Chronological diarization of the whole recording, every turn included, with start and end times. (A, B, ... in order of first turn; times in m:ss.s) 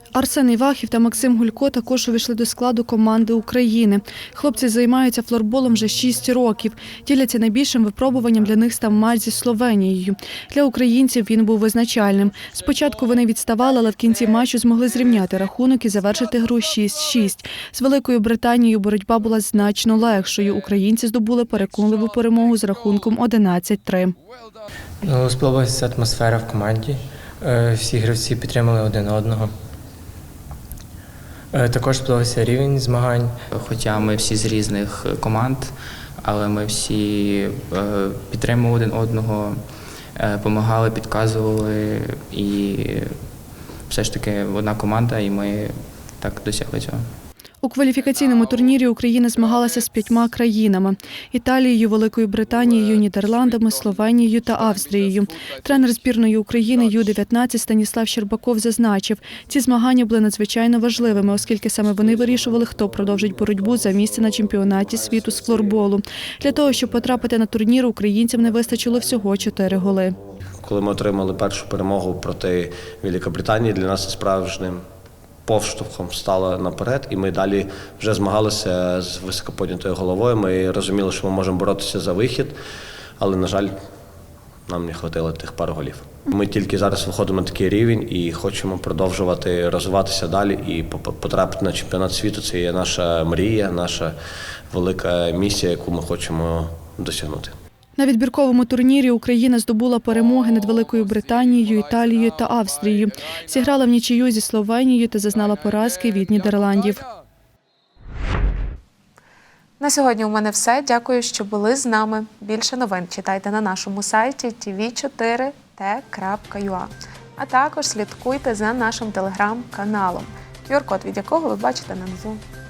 0:00.1-0:24.1 A
0:25.0-0:29.5 B
0:31.5-0:33.3 B
0:33.5-0:39.6 C
0:40.1-0:43.2 C
0:43.9-0:47.1 C
0:47.6-1:10.2 A
1:10.6-1:14.6 C
1:10.7-1:14.8 D
1:15.5-1:22.5 C
1:15.5-1:18.7 D
1:19.4-1:22.4 D
1:23.2-1:23.6 D
1:23.2-1:23.7 C
1:24.7-1:34.1 D
1:24.7-1:25.9 C
1:26.5-1:34.0 C
1:34.7-1:37.5 D
1:34.9-1:37.5 C
1:38.0-1:47.0 A
1:49.8-2:02.4 E